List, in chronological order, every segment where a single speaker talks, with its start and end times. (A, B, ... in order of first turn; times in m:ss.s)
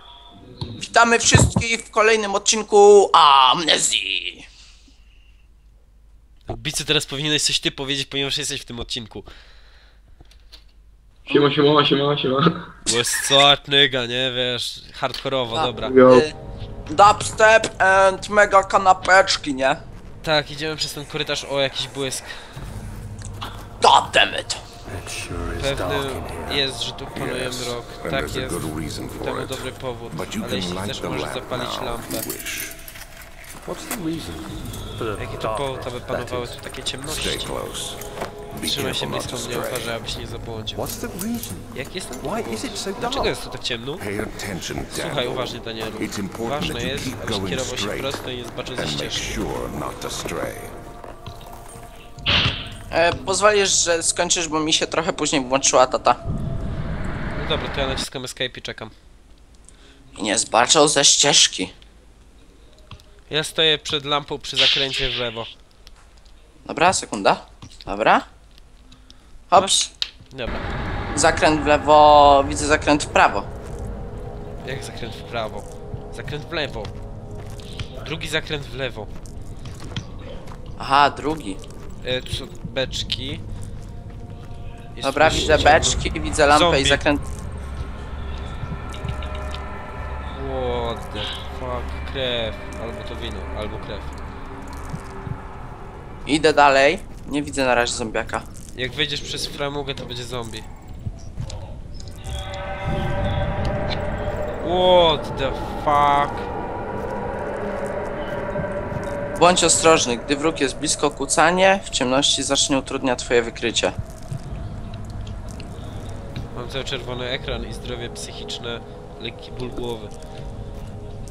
0:00.8-0:04.4 A
0:06.5-0:09.3 B
0:11.3-0:12.7 C
0:12.8-0:16.0 B
0:15.6-0:16.3 A
0:15.8-0:16.3 C
0:16.9-0:19.8 A
0:20.2-0:22.3 B
0:23.8-0:24.6 A
0:24.9-0:26.6 D
0:25.6-0:32.3 B
0:27.1-0:32.8 E
0:33.6-0:36.6 D
0:35.2-0:37.5 B
0:37.0-0:40.0 E
0:38.6-0:40.9 B
0:40.7-0:43.4 D
0:41.7-0:44.0 B
0:44.0-0:50.7 E
0:44.9-0:49.4 B
0:52.9-0:56.2 A
0:57.3-0:58.9 B
1:00.2-1:01.7 A
1:03.3-1:05.5 B
1:06.6-1:08.2 A
1:09.5-1:09.9 A
1:10.3-1:10.7 B
1:11.1-1:13.5 A
1:14.6-1:16.9 B
1:18.0-1:19.1 B
1:20.8-1:21.6 A
1:22.0-1:23.4 B
1:24.9-1:27.0 B
1:25.0-1:27.2 A
1:30.3-1:34.1 B
1:36.3-1:38.4 A
1:38.7-1:40.7 B
1:44.6-1:46.5 B
1:49.4-1:53.9 A
1:56.5-2:00.1 B